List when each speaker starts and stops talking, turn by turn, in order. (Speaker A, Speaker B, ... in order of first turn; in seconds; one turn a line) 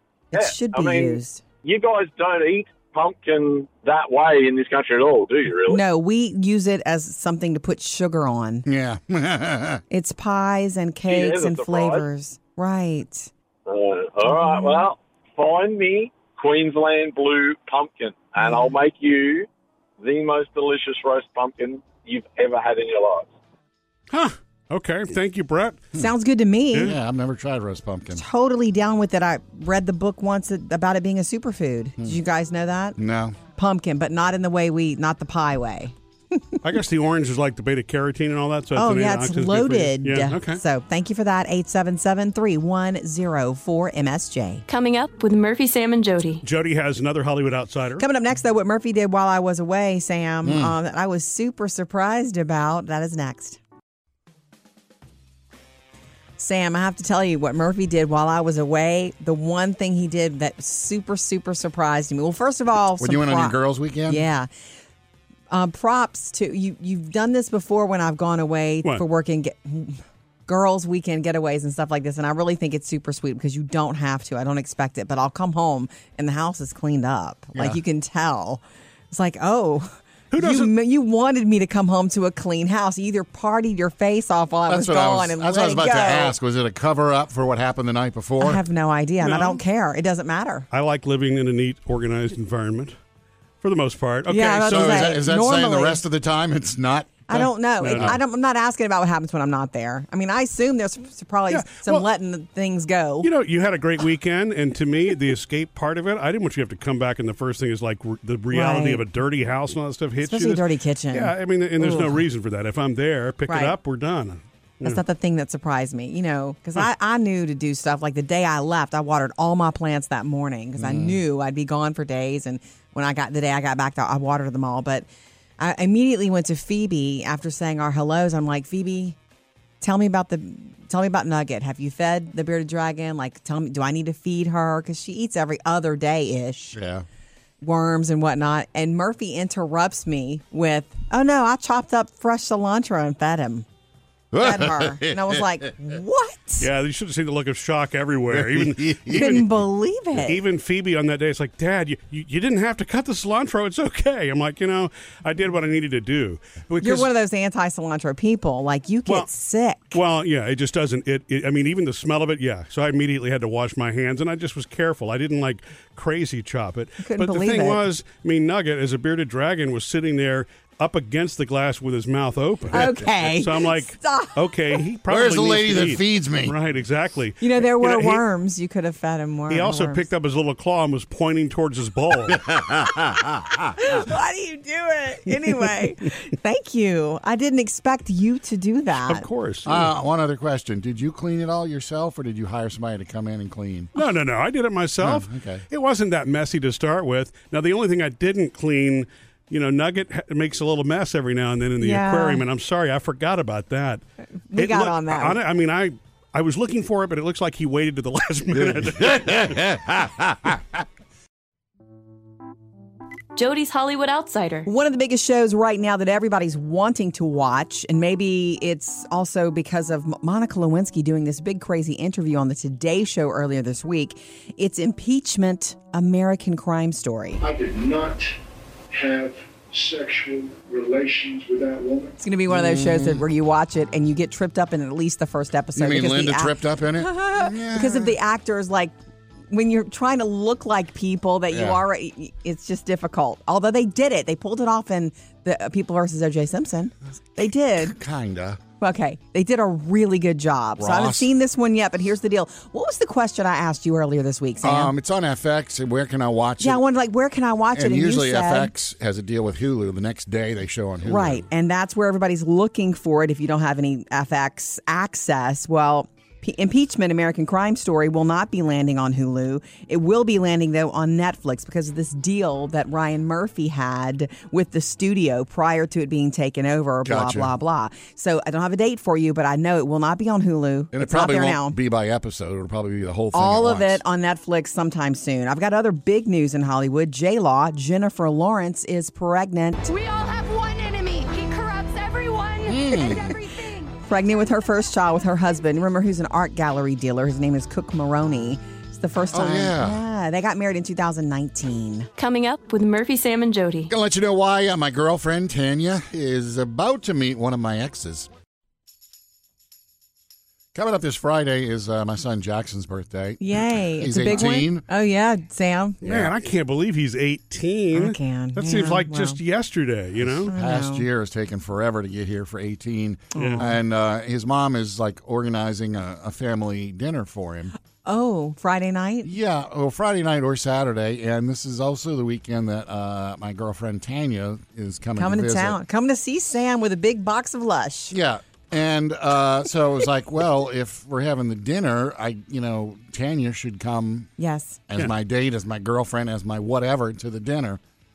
Speaker A: 0.3-1.4
Speaker B: 0.3-5.8
Speaker A: 5.7-8.7
Speaker C: 8.7-9.8
Speaker A: 9.9-13.3
Speaker B: 11.1-12.1
Speaker B: 13.7-19.5
Speaker A: 14.3-14.9
Speaker A: 18.4-18.7
Speaker B: 20.0-23.3
Speaker D: 24.1-25.9
Speaker A: 25.9-26.9
Speaker C: 26.8-28.2
Speaker A: 28.1-33.0
Speaker C: 33.0-33.4
Speaker A: 33.6-36.6
Speaker D: 36.6-40.6
Speaker A: 38.8-44.6
Speaker E: 44.7-46.4
Speaker D: 46.4-48.1
Speaker A: 48.0-53.6
Speaker C: 50.4-50.7
Speaker A: 56.4-64.5
Speaker C: 63.0-64.2
Speaker A: 65.5-86.3
Speaker D: 80.3-80.7
Speaker C: 84.7-88.6
Speaker A: 88.4-90.7
Speaker D: 89.2-89.6
Speaker D: 90.7-93.0
Speaker D: 93.6-95.1
Speaker A: 94.3-96.0
Speaker C: 94.7-98.2
Speaker A: 97.3-103.3
Speaker D: 97.8-98.2
Speaker D: 101.5-102.0
Speaker D: 103.2-115.0
Speaker A: 108.5-109.0
Speaker A: 110.2-112.2
Speaker A: 113.5-113.8
Speaker A: 114.8-125.1
Speaker C: 120.8-121.2
Speaker A: 125.6-129.2
Speaker A: 129.8-136.8
Speaker C: 136.7-137.1
Speaker A: 137.6-143.7
Speaker C: 144.3-145.7
Speaker A: 144.4-146.7
Speaker D: 146.6-149.4
Speaker C: 148.3-149.5
Speaker A: 149.1-150.4
Speaker D: 150.2-157.1
Speaker A: 156.8-160.0
Speaker D: 159.9-178.2
Speaker A: 167.0-167.8
Speaker A: 172.7-174.4
Speaker C: 172.7-173.1
Speaker C: 175.1-176.6
Speaker A: 177.4-180.1
Speaker D: 179.5-182.4
Speaker C: 182.3-183.8
Speaker A: 183.8-189.3
Speaker D: 189.1-189.9
Speaker C: 189.7-193.9
Speaker D: 193.9-204.0
Speaker C: 195.0-195.7
Speaker A: 201.8-202.4
Speaker A: 204.5-205.4
Speaker D: 204.6-209.6
Speaker C: 208.6-210.8
Speaker E: 213.4-214.7
Speaker A: 214.7-227.4
Speaker F: 227.4-228.3
Speaker F: 228.9-232.2
Speaker A: 232.2-238.9
Speaker C: 232.5-233.2
Speaker C: 235.8-238.1
Speaker A: 239.5-248.0
Speaker C: 241.5-241.8
Speaker C: 247.8-248.6
Speaker A: 248.8-254.9
Speaker C: 250.8-251.3
Speaker C: 254.6-256.8
Speaker A: 256.6-258.7
Speaker C: 257.7-261.5
Speaker A: 261.1-281.8
Speaker C: 277.1-277.5
Speaker C: 280.9-284.0
Speaker A: 283.3-289.9
Speaker G: 289.9-293.9
Speaker C: 292.7-293.4
Speaker A: 292.9-302.1
Speaker C: 299.3-300.0
Speaker E: 302.2-303.9
Speaker C: 303.9-308.3
Speaker C: 310.7-314.9
Speaker A: 313.4-316.0
Speaker D: 316.0-320.5
Speaker C: 316.0-316.3
Speaker A: 317.9-319.4
Speaker C: 320.2-327.7
Speaker A: 320.5-321.1
Speaker A: 323.3-323.7
Speaker D: 323.4-323.6
Speaker A: 328.0-329.3
Speaker C: 329.2-335.8
Speaker A: 335.2-338.1
Speaker C: 338.1-344.3
Speaker A: 344.4-344.8
Speaker C: 344.9-347.8